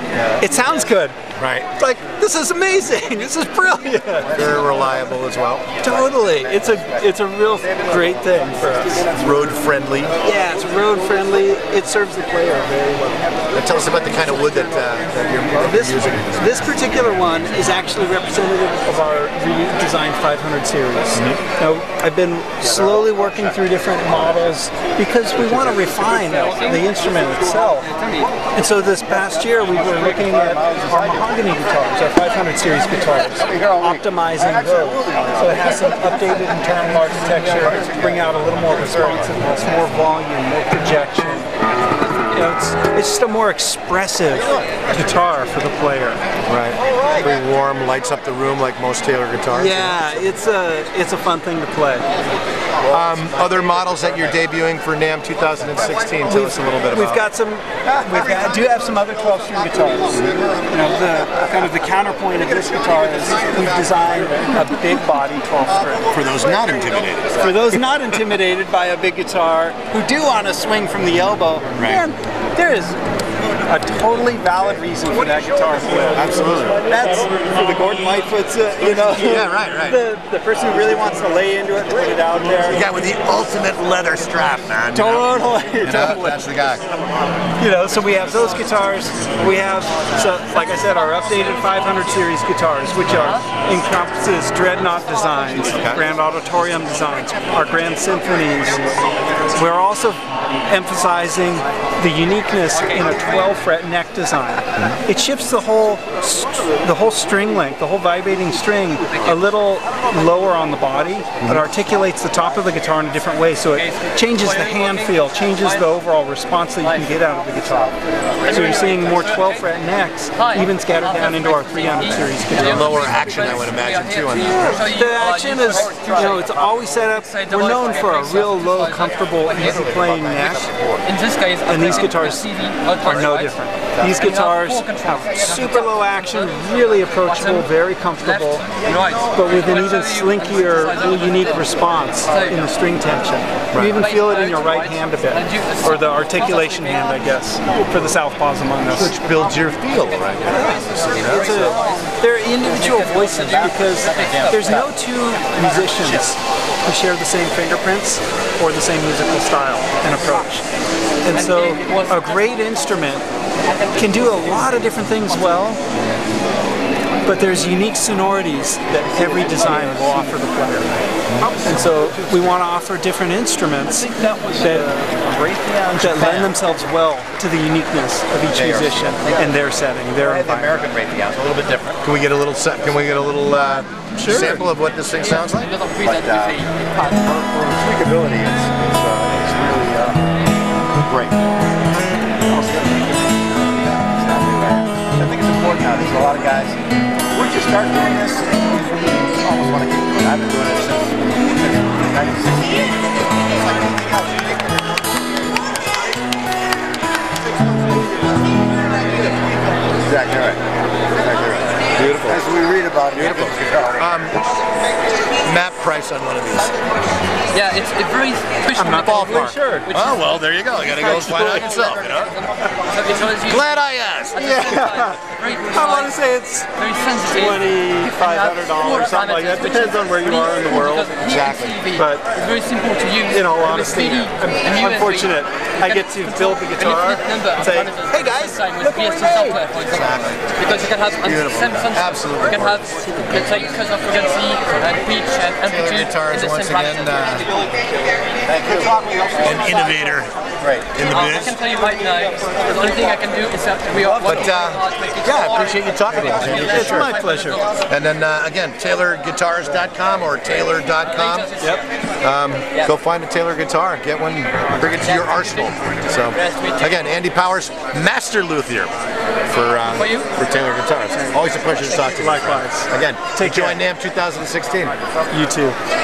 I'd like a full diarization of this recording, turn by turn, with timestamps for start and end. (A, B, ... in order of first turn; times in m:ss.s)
0:00.4-0:01.2 A
0:01.4-0:01.7 B
0:01.7-0:04.5 A
0:04.3-0:05.7 B
0:04.4-0:05.0 C
0:05.8-0:09.1 A
0:05.8-0:06.8 C
0:08.0-0:09.5 C
0:09.1-0:10.2 B
0:10.2-0:13.3 A
0:13.5-0:16.7 B
0:15.6-0:27.9 A
0:21.2-0:21.4 B
0:28.5-0:41.5 A
0:30.1-0:31.2 C
0:33.5-0:34.0 C
0:34.7-0:35.8 C
0:42.3-0:46.2 A
0:46.4-0:50.1 B
0:49.5-0:52.1 A
0:52.8-0:53.1 C
0:52.9-0:57.2 B
0:56.2-1:06.1 A
1:06.1-1:07.8 B
1:07.4-1:13.0 A
1:11.7-1:12.0 B
1:13.6-1:16.3 A
1:16.1-1:16.9 B
1:16.8-1:22.8 A
1:18.9-1:20.0 B
1:22.7-1:26.9 B
1:24.9-1:26.4 A
1:27.6-1:38.9 A
1:35.7-1:36.0 B
1:39.5-2:03.2 A
1:53.9-1:55.0 D
1:58.8-1:59.1 D
2:01.2-2:09.8 D
2:02.5-2:04.9 B
2:04.3-2:10.7 A
2:09.8-2:11.0 C
2:11.0-2:13.5 D
2:11.6-2:18.6 A
2:14.2-2:17.7 D
2:18.3-2:21.3 D
2:19.3-2:29.2 A
2:23.7-2:24.0 B
2:23.9-2:26.9 D
2:28.9-2:31.7 B
2:30.5-2:40.6 A
2:30.5-2:32.0 D
2:33.2-2:34.7 D
2:33.9-2:34.6 C
2:41.2-2:43.2 A
2:41.4-2:42.1 D
2:43.9-2:45.8 A
2:47.2-3:00.8 A
2:51.3-2:51.6 B
2:56.0-2:56.5 B
2:58.6-2:59.5 C
3:00.2-3:02.0 C
3:02.0-3:05.7 B
3:04.1-3:04.6 A
3:05.6-3:06.7 D
3:06.0-3:10.3 C
3:11.1-3:11.3 C
3:12.3-3:23.1 C
3:30.0-3:30.6 C
3:31.1-3:34.1 C
3:31.9-3:32.4 B
3:33.1-3:34.4 B
3:35.4-3:36.8 B
3:37.5-3:40.2 D
3:38.7-3:39.9 A
3:39.9-3:42.4 B
3:41.1-3:43.8 D
3:43.3-3:44.5 B
3:44.4-3:51.2 A
3:44.4-3:46.2 D
3:46.8-3:55.3 D
3:51.2-3:51.9 B
3:51.9-3:52.4 A
3:53.2-3:59.6 A
3:55.8-4:07.6 D
3:59.8-4:00.6 B
4:01.1-4:03.8 B
4:05.6-4:07.5 B
4:08.4-4:09.7 C
4:09.4-4:11.6 B
4:10.6-4:10.9 C
4:11.1-4:17.5 D
4:14.2-4:17.2 B
4:16.4-4:17.7 A
4:17.8-4:21.5 B
4:21.3-4:21.7 D
4:21.6-4:21.8 A
4:22.2-4:28.9 B
4:26.4-4:26.8 D
4:29.5-4:34.9 B
4:31.9-4:33.8 A
4:35.3-4:35.8 A